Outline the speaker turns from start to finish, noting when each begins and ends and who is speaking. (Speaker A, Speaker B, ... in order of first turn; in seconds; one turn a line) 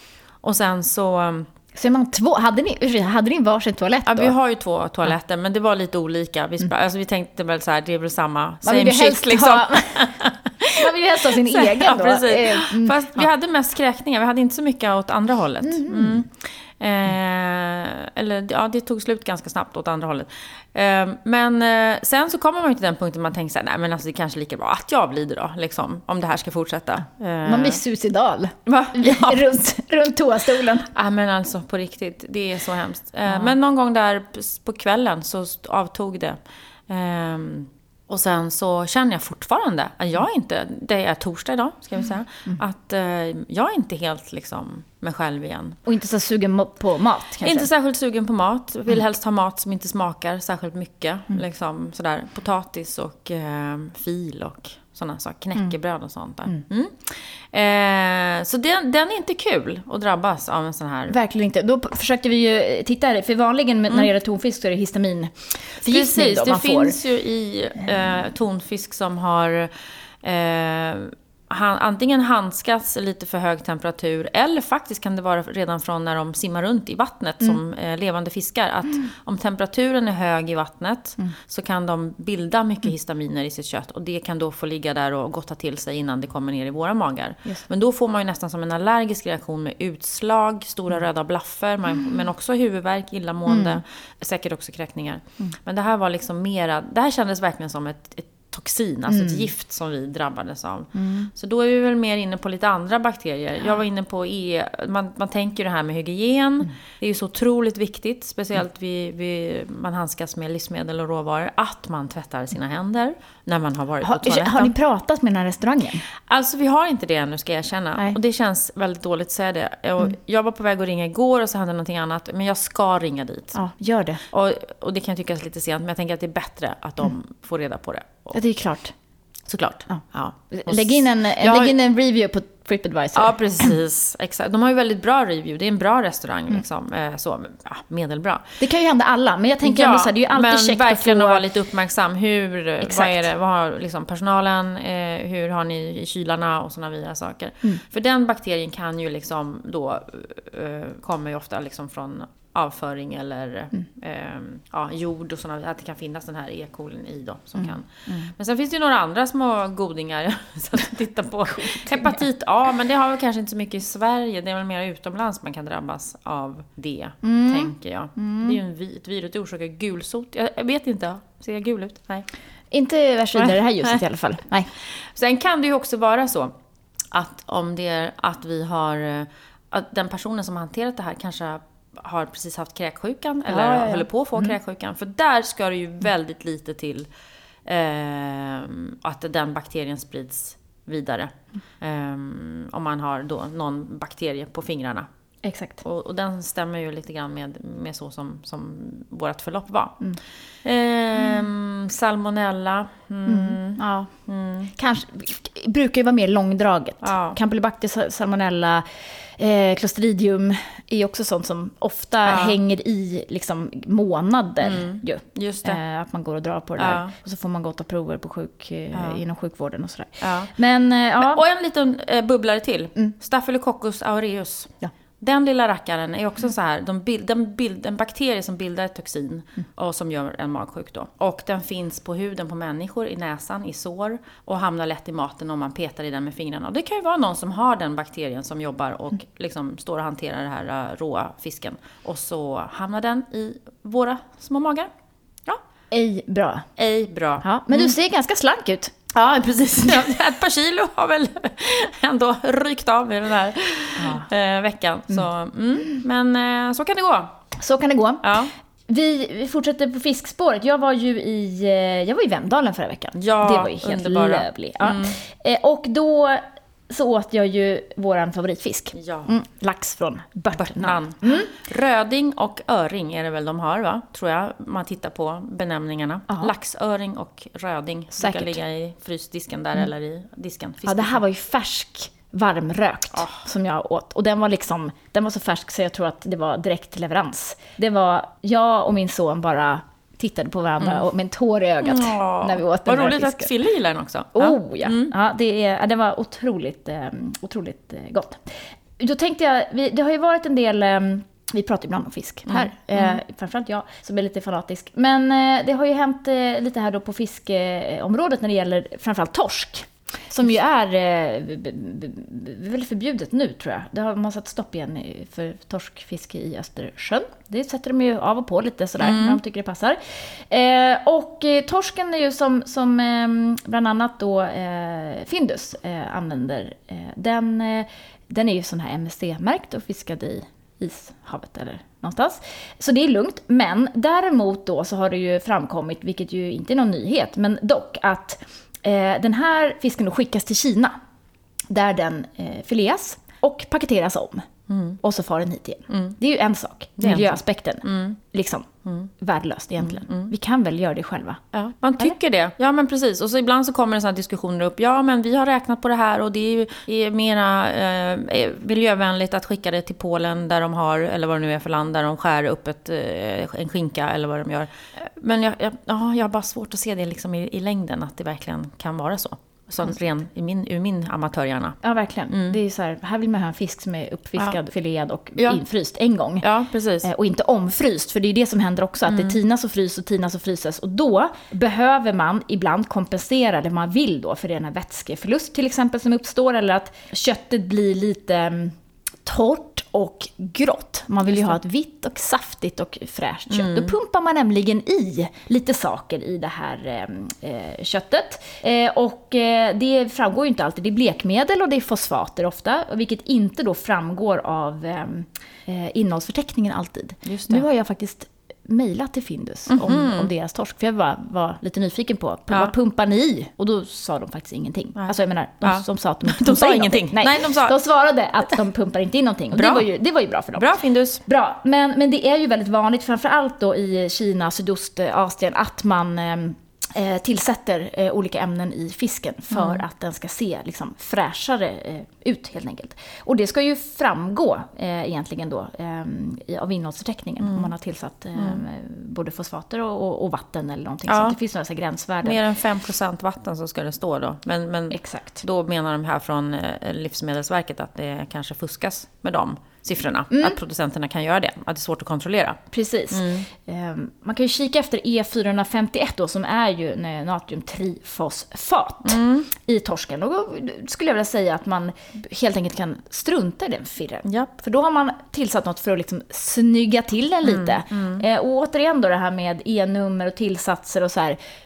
Speaker A: 0.4-1.5
Speaker B: 1.7-4.3
Speaker A: 4.0-27.8
Speaker B: 8.6-10.2
Speaker B: 10.7-13.2
Speaker B: 15.6-16.2
Speaker B: 27.4-30.9
Speaker A: 28.7-29.5
Speaker A: 30.9-45.8
Speaker B: 45.9-47.7
Speaker A: 47.4-61.2
Speaker B: 61.1-67.0
Speaker A: 65.9-114.7
Speaker B: 93.5-93.8
Speaker B: 99.1-99.5
Speaker B: 101.0-101.3
Speaker B: 114.0-116.0
Speaker A: 116.3-123.6
Speaker B: 123.5-124.2
Speaker A: 124.3-128.3
Speaker B: 128.3-128.9
Speaker A: 129.5-131.7
Speaker B: 129.9-133.7
Speaker A: 133.2-138.5
Speaker B: 138.6-141.4
Speaker A: 139.6-172.3
Speaker B: 142.8-143.3
Speaker B: 161.5-162.1
Speaker B: 167.2-168.6
Speaker B: 172.7-174.7
Speaker A: 173.3-174.0
Speaker A: 174.8-176.5
Speaker A: 177.1-187.1
Speaker B: 183.5-184.6
Speaker A: 187.7-195.1
Speaker B: 195.4-195.8
Speaker A: 195.8-200.0
Speaker A: 200.6-204.7
Speaker B: 203.3-204.1
Speaker B: 204.8-208.8
Speaker A: 207.0-207.4
Speaker B: 209.4-221.4
Speaker A: 212.2-212.6
Speaker A: 214.6-215.8
Speaker A: 216.8-217.1
Speaker A: 218.9-219.2
Speaker A: 220.2-220.5
Speaker A: 221.2-244.9
Speaker B: 245.9-246.7
Speaker A: 246.8-247.9
Speaker B: 247.4-250.2
Speaker A: 249.7-257.3
Speaker B: 254.0-254.3
Speaker B: 257.6-271.5
Speaker A: 258.2-258.5
Speaker A: 263.1-265.2
Speaker A: 268.9-269.3
Speaker A: 270.6-281.2
Speaker B: 278.2-278.6
Speaker B: 280.9-293.5
Speaker A: 291.8-295.1
Speaker B: 294.4-298.4
Speaker B: 299.0-340.9
Speaker A: 302.5-303.2
Speaker A: 319.0-319.4
Speaker B: 341.7-344.5
Speaker A: 344.7-345.0
Speaker B: 345.0-351.4
Speaker A: 345.9-346.1
Speaker A: 347.0-348.2
Speaker A: 349.8-350.3
Speaker A: 351.5-371.8
Speaker B: 371.8-376.5
Speaker A: 372.3-372.6
Speaker A: 376.4-377.1
Speaker B: 377.0-420.7
Speaker A: 379.1-379.4
Speaker A: 391.3-391.6
Speaker A: 393.5-393.9
Speaker A: 407.2-407.6
Speaker A: 409.7-410.3
Speaker A: 415.0-417.8
Speaker A: 419.5-419.9
Speaker A: 420.6-421.2
Speaker B: 421.3-442.4
Speaker A: 429.5-429.8
Speaker A: 437.4-437.7
Speaker A: 441.1-441.4
Speaker A: 442.2-452.6
Speaker B: 444.9-445.4
Speaker B: 450.3-450.6
Speaker B: 452.7-471.4
Speaker A: 453.1-453.5
Speaker A: 459.1-459.5
Speaker A: 464.2-464.5
Speaker A: 467.4-468.2